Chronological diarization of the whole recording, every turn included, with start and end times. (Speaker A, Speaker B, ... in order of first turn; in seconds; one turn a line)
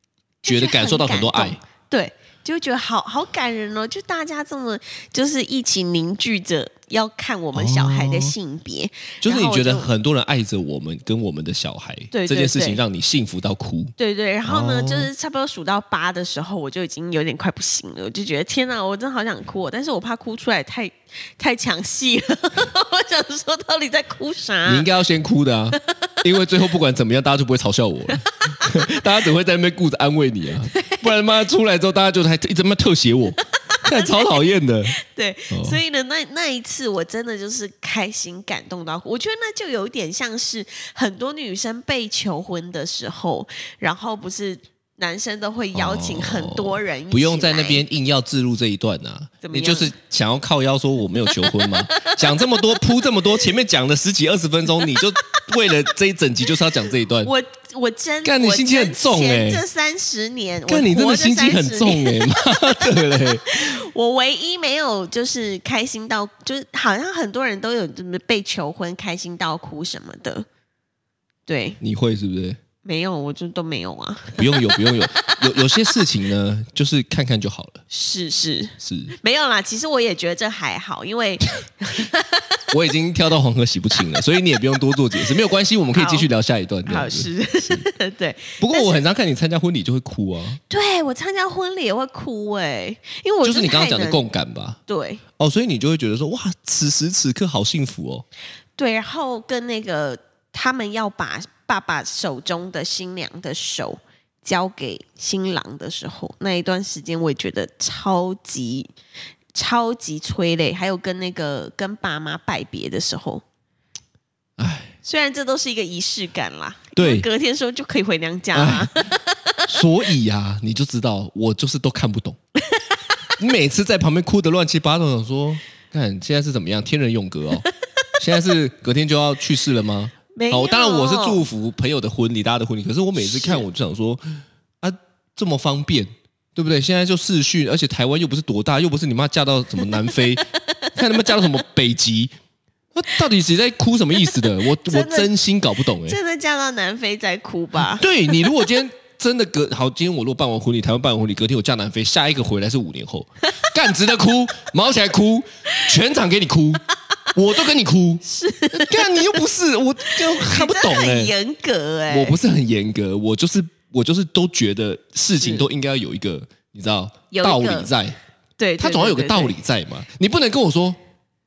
Speaker A: 0.4-9.9
Speaker B: 0.4-1.6
Speaker B: 7.5-8.3
Speaker B: 9.2-15.1
Speaker A: 12.1-12.8
Speaker A: 14.0-24.9
Speaker B: 24.6-35.0
Speaker A: 30.7-31.0
Speaker A: 33.7-34.4
Speaker A: 35.0-47.8
Speaker B: 35.5-35.8
Speaker B: 45.8-57.3
Speaker A: 49.4-49.9
Speaker A: 51.4-52.6
Speaker A: 57.2-70.5
Speaker B: 58.2-59.6
Speaker B: 60.7-63.8
Speaker A: 71.5-71.8
Speaker B: 71.8-72.6
Speaker A: 72.8-75.8
Speaker B: 74.4-77.8
Speaker A: 77.9-82.6
Speaker B: 78.8-79.1
Speaker B: 82.7-87.9
Speaker A: 85.9-86.3
Speaker A: 86.9-89.0
Speaker B: 88.6-90.6
Speaker A: 90.7-94.2
Speaker B: 93.4-94.8
Speaker A: 94.9-95.2
Speaker B: 95.4-98.3
Speaker A: 98.8-108.9
Speaker A: 109.5-113.4
Speaker B: 114.6-114.9
Speaker A: 115.0-119.7
Speaker B: 117.0-117.3
Speaker B: 118.5-119.1
Speaker B: 119.7-122.4
Speaker B: 123.4-127.7
Speaker B: 128.2-142.3
Speaker A: 130.3-131.4
Speaker A: 133.2-133.6
Speaker A: 140.4-140.9
Speaker B: 142.9-146.2
Speaker A: 144.7-145.3
Speaker A: 146.0-148.6
Speaker B: 147.9-156.8
Speaker B: 157.3-161.3
Speaker A: 158.2-159.4
Speaker A: 160.1-162.4
Speaker B: 162.1-168.2
Speaker A: 165.4-165.7
Speaker A: 167.3-167.9
Speaker A: 168.6-169.6
Speaker B: 168.8-171.0